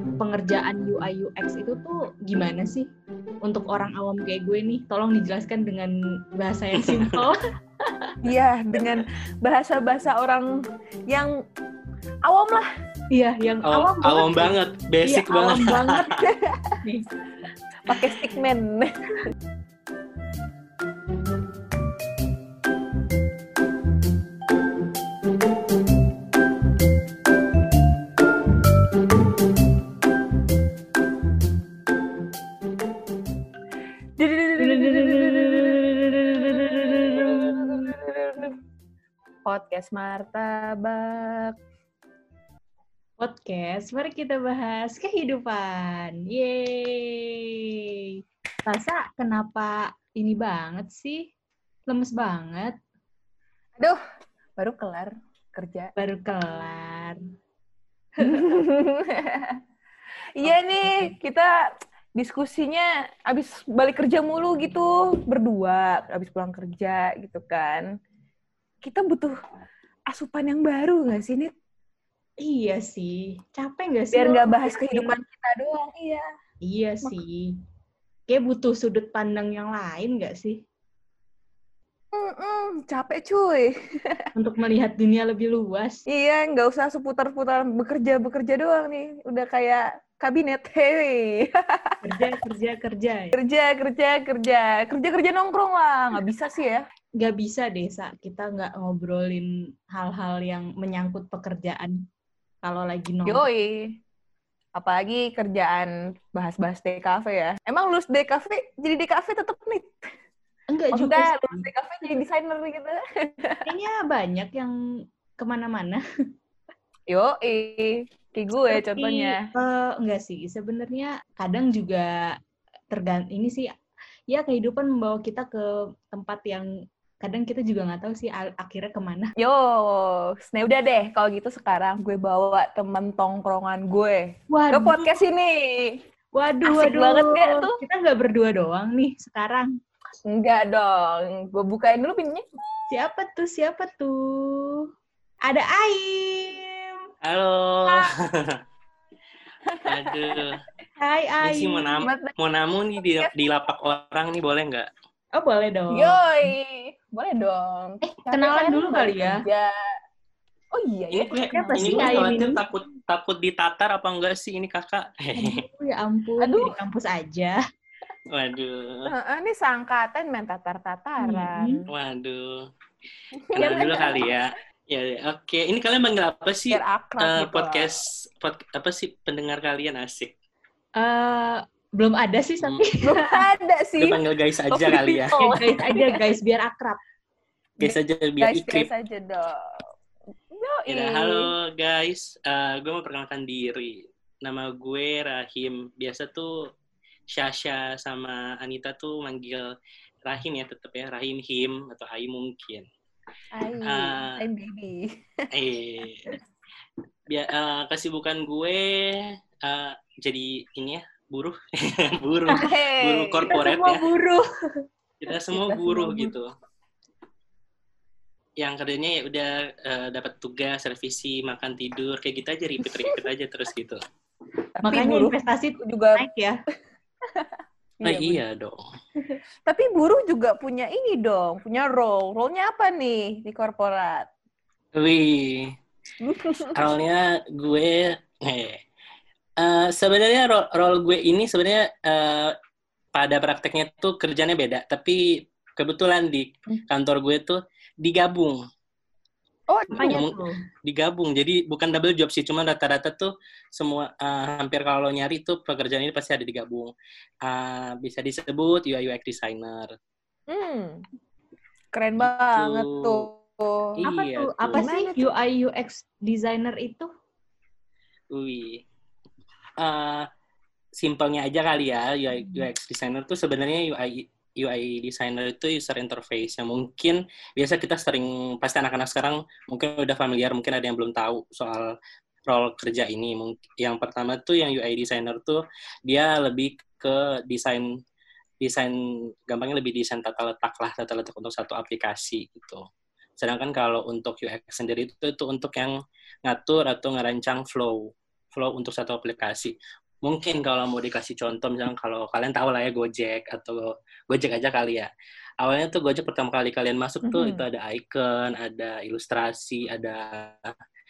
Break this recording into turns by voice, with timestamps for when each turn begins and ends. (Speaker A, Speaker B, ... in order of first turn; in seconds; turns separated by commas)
Speaker A: 0.2-2.9, Speaker A: 3.4-7.4, Speaker B: 6.7-7.2, Speaker C: 8.2-10.5, Speaker C: 11.1-11.3, Speaker C: 12.2-12.7, Speaker A: 13.1-16.1, Speaker B: 13.7-16.2, Speaker C: 16.1-16.8, Speaker A: 16.8-17.1, Speaker C: 17.9-19.3, Speaker C: 34.2-38.6, Speaker A: 34.6-37.9, Speaker C: 39.5-41.5, Speaker A: 43.2-47.8, Speaker A: 48.6-51.3, Speaker A: 51.9-52.8, Speaker C: 54.6-55.9, Speaker A: 56.0-57.2, Speaker A: 58.2-58.5, Speaker C: 58.2-59.6, Speaker C: 60.4-61.5, Speaker A: 60.4-61.1, Speaker C: 62.2-67.9, Speaker C: 68.8-69.4, Speaker C: 70.1-71.5, Speaker A: 72.4-75.2, Speaker C: 74.1-76.3, Speaker A: 76.6-77.6, Speaker A: 78.3-80.6, Speaker C: 82.1-84.2, Speaker A: 84.3-86.0, Speaker C: 86.1-92.3, Speaker A: 92.0-93.4, Speaker C: 93.3-96.8, Speaker A: 97.2-102.0, Speaker A: 102.6-103.4, Speaker C: 103.2-104.0, Speaker C: 104.7-110.1, Speaker A: 110.7-111.7, Speaker C: 110.9-113.7, Speaker A: 113.7-114.7, Speaker A: 115.4-116.0, Speaker C: 117.1-119.4, Speaker A: 118.6-122.4, Speaker A: 122.9-123.7, Speaker A: 124.3-126.7, Speaker A: 127.2-129.3, Speaker C: 129.4-136.0, Speaker A: 134.5-135.1, Speaker A: 136.3-139.7, Speaker C: 136.6-137.8, Speaker C: 140.3-142.9, Speaker A: 142.9-144.8, Speaker A: 145.4-147.0, Speaker B: 147.2-148.6, Speaker C: 149.7-150.4, Speaker B: 149.8-150.6, Speaker A: 151.0-152.1, Speaker B: 151.4-154.9, Speaker C: 152.0-152.3, Speaker C: 153.0-153.5, Speaker A: 155.3-156.2, Speaker C: 155.9-159.7, Speaker A: 158.0-159.4, Speaker C: 160.7-162.4, Speaker B: 161.1-165.6, Speaker A: 161.5-162.6, Speaker A: 165.3-167.6, Speaker C: 166.4-166.7, Speaker B: 168.3-169.1, Speaker C: 169.1-171.9, Speaker A: 171.2-171.8, Speaker B: 171.9-172.7, Speaker C: 173.3-174.2, Speaker B: 173.5-180.3, Speaker A: 173.6-174.1, Speaker C: 176.7-178.0, Speaker A: 181.0-183.4, Speaker C: 183.0-186.3, Speaker B: 184.0-185.6, Speaker A: 185.4-187.0, Speaker C: 187.8-189.8, Speaker B: 187.8-188.9, Speaker C: 190.5-191.5, Speaker B: 190.9-196.7, Speaker B: 197.3-199.7, Speaker B: 200.2-202.9, Speaker C: 203.5-205.5, Speaker B: 203.8-204.4, Speaker B: 205.5-206.3, Speaker B: 207.3-214.1, Speaker C: 212.6-213.6, Speaker A: 213.5-214.5, Speaker B: 215.2-216.5, Speaker C: 215.5-216.3, Speaker B: 218.6-224.0, Speaker C: 222.9-223.2, Speaker C: 224.7-226.2, Speaker A: 224.8-226.6, Speaker C: 228.0-228.4, Speaker B: 228.0-228.8, Speaker C: 229.6-234.3, Speaker B: 234.9-235.8, Speaker C: 236.2-236.9, Speaker B: 236.7-238.8, Speaker B: 239.6-242.5, Speaker B: 243.1-248.6, Speaker C: 249.7-250.3, Speaker A: 249.9-250.6, Speaker B: 249.9-259.9, Speaker C: 260.5-261.0, Speaker C: 261.9-264.0, Speaker B: 262.2-263.3, Speaker A: 264.0-267.1, Speaker B: 264.0-264.9, Speaker C: 264.7-265.3, Speaker B: 268.3-268.8, Speaker B: 269.8-270.3, Speaker B: 270.9-281.9, Speaker B: 282.5-287.9, Speaker B: 288.6-288.9, Speaker B: 289.5-292.8, Speaker B: 293.4-305.1, Speaker B: 305.6-310.7, Speaker C: 307.2-307.6